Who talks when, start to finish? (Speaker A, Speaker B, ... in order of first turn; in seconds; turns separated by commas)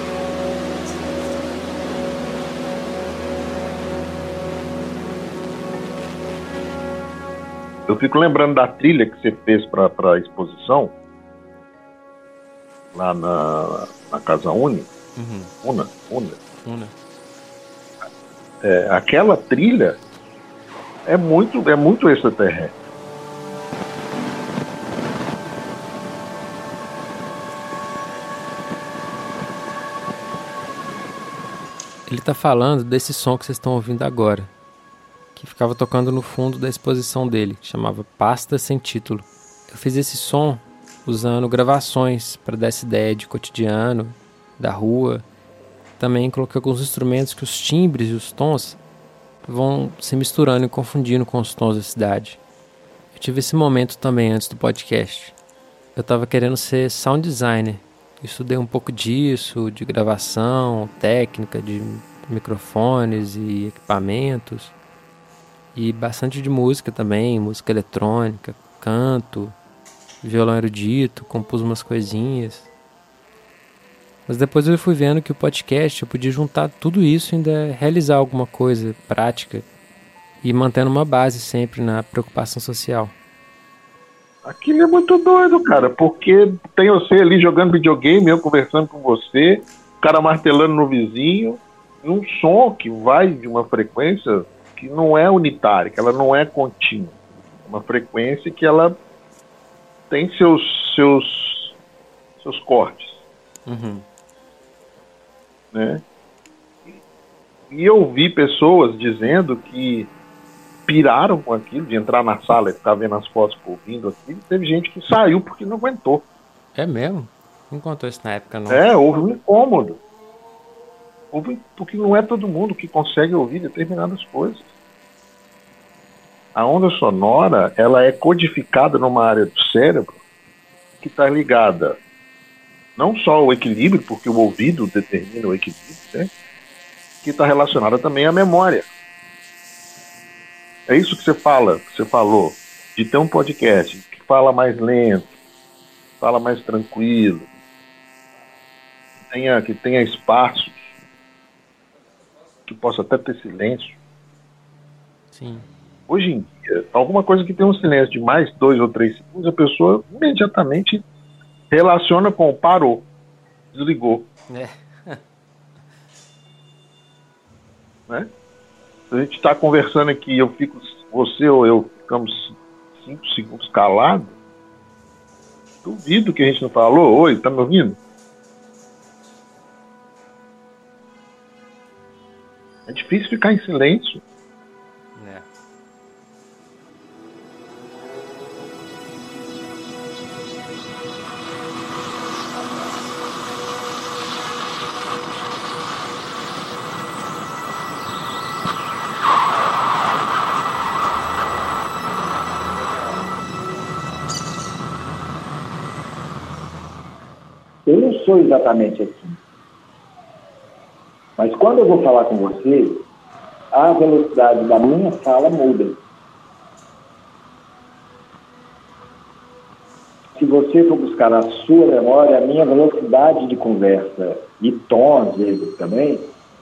Speaker A: 7.9-10.9, Speaker A: 12.9-14.9, Speaker B: 15.2-15.5, Speaker A: 15.6-16.4, Speaker B: 16.6-16.9, Speaker A: 18.6-20.0, Speaker A: 21.1-22.7, Speaker B: 32.1-34.5, Speaker B: 35.4-45.2, Speaker B: 46.0-48.8, Speaker B: 49.4-52.4, Speaker B: 53.1-55.3, Speaker B: 56.0-64.7, Speaker B: 65.7-69.5, Speaker B: 70.2-72.7, Speaker B: 74.3-79.7, Speaker B: 80.4-83.1, Speaker A: 84.4-97.1, Speaker A: 97.7-99.0, Speaker A: 100.1-101.7, Speaker A: 102.4-103.2, Speaker B: 103.7-104.0, Speaker A: 105.7-106.0, Speaker A: 107.7-110.1, Speaker A: 110.9-116.2, Speaker B: 116.7-118.8, Speaker A: 118.7-120.0, Speaker A: 121.3-124.7, Speaker A: 126.5-130.2, Speaker A: 131.0-132.0, Speaker A: 133.0-136.3, Speaker A: 137.2-138.9, Speaker A: 140.9-145.3, Speaker A: 146.2-147.5, Speaker A: 149.3-150.9, Speaker A: 152.7-154.0, Speaker B: 155.3-155.7, Speaker A: 156.1-161.0, Speaker A: 161.7-163.1, Speaker A: 163.7-164.3, Speaker B: 164.5-165.2, Speaker A: 169.1-174.3, Speaker A: 175.8-178.0, Speaker A: 182.9-184.2, Speaker B: 185.2-185.4, Speaker C: 207.8-209.4, Speaker C: 211.4-213.0, Speaker C: 213.7-216.0, Speaker C: 220.3-226.3